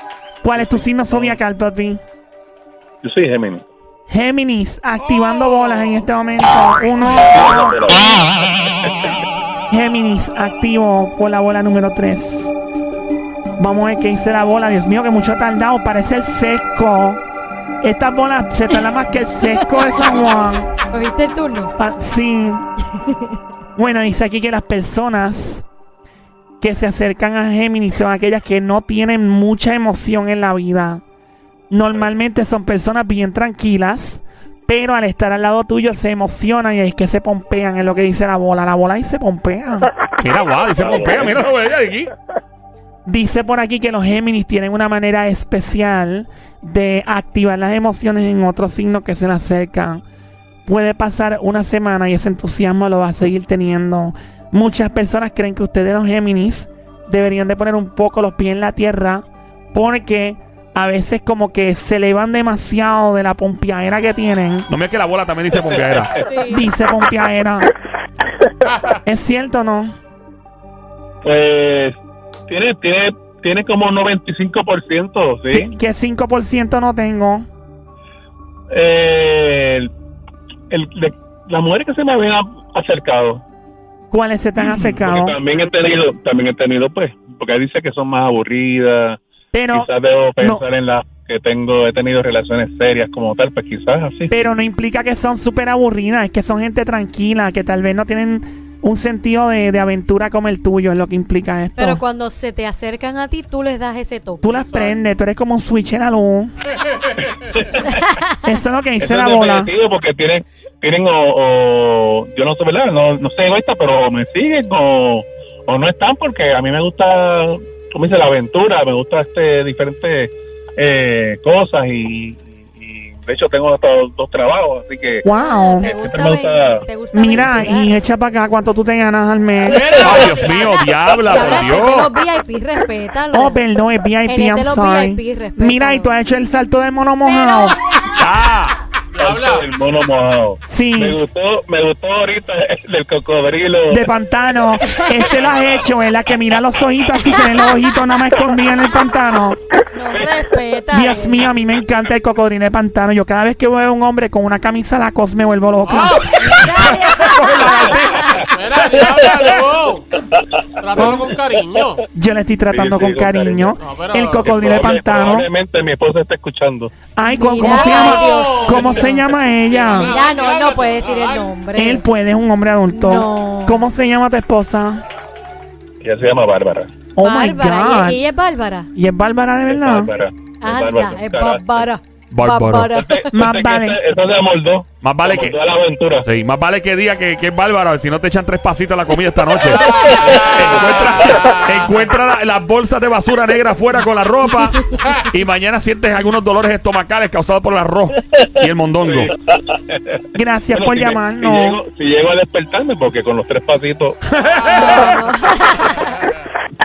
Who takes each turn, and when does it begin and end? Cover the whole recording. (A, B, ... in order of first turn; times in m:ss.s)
0:00.4-0:02.0 A
0:00.6-0:01.4 B
0:03.0-0:03.6 B
0:04.1-0:07.8 A
0:07.2-0:09.2 B
0:09.7-0:12.5 A
0:13.6-0:17.2 A
0:17.8-0:20.7 A
0:19.4-0:20.0 C
0:20.9-0:21.7 C
0:21.8-0:22.6 A
0:23.8-0:25.6 A
0:26.6-0:31.0 A
0:31.7-0:39.9 A
0:40.2-0:42.1 D
0:40.8-0:41.4 B
0:43.1-0:50.0 A
0:50.7-1:04.7 A
1:04.7-1:06.2 D
1:05.5-1:06.2 B
1:06.2-1:06.7 C
1:06.5-1:07.7 A
1:08.7-1:09.0 E
1:09.0-1:09.9 A
1:11.2-1:12.0 B
1:12.5-1:15.7 B
1:15.5-1:17.5 A
1:18.7-1:19.9 B
1:20.7-1:23.4 B
1:24.1-1:25.4 A
1:24.6-1:29.2 B
1:29.5-1:29.9 A
1:29.7-1:34.5 B
1:34.3-1:42.0 A
1:41.8-1:44.9 C
1:44.4-1:46.5 A
1:47.2-1:48.0 B
1:48.4-1:49.7 A
1:49.0-2:05.2 B
2:05.2-2:05.9 A
2:05.3-2:08.0 C
2:05.8-2:06.8 B
2:07.1-2:10.1 A
2:09.8-2:10.5 E
2:10.0-2:12.1 D
2:11.3-2:13.6 C
2:13.3-2:17.8 A
2:14.3-2:16.1 C
2:17.2-2:17.9 C
2:18.2-2:18.8 D
2:19.2-2:24.0 B
2:19.2-2:19.6 E
2:20.7-2:21.2 A
2:23.9-2:29.6 A
2:24.9-2:25.2 C
2:29.9-2:31.4 C
2:30.9-2:36.3 A
2:36.0-2:36.3 E
2:36.3-2:38.4 C
2:37.4-2:40.1 E
2:38.4-2:39.6 B
2:40.8-2:42.0 E
2:40.9-2:41.3 B
2:42.2-2:45.5 A
2:42.7-2:43.8 B
2:43.8-2:44.6 E
2:44.4-2:46.9 B
2:47.2-2:50.1 A
2:47.2-2:49.2 C
2:47.7-2:49.1 E
2:49.8-2:51.4 E
2:49.9-2:52.0 C
2:51.8-2:55.0 A
2:52.9-2:53.9 C
2:56.0-2:56.9 B
2:57.2-2:58.2 A
2:57.2-2:58.9 C
2:59.0-3:00.1 A
2:59.7-3:01.8 B
3:00.6-3:03.3 C
3:02.3-3:02.9 D
3:03.0-3:06.3 B
3:03.3-3:04.0 A
3:05.0-3:05.6 D
3:06.2-3:19.3 D
3:10.0-3:11.7 E
3:10.3-3:11.3 B
3:19.0-3:24.2 B
3:20.4-3:21.8 A
3:24.5-3:25.2 E
3:24.7-3:26.3 C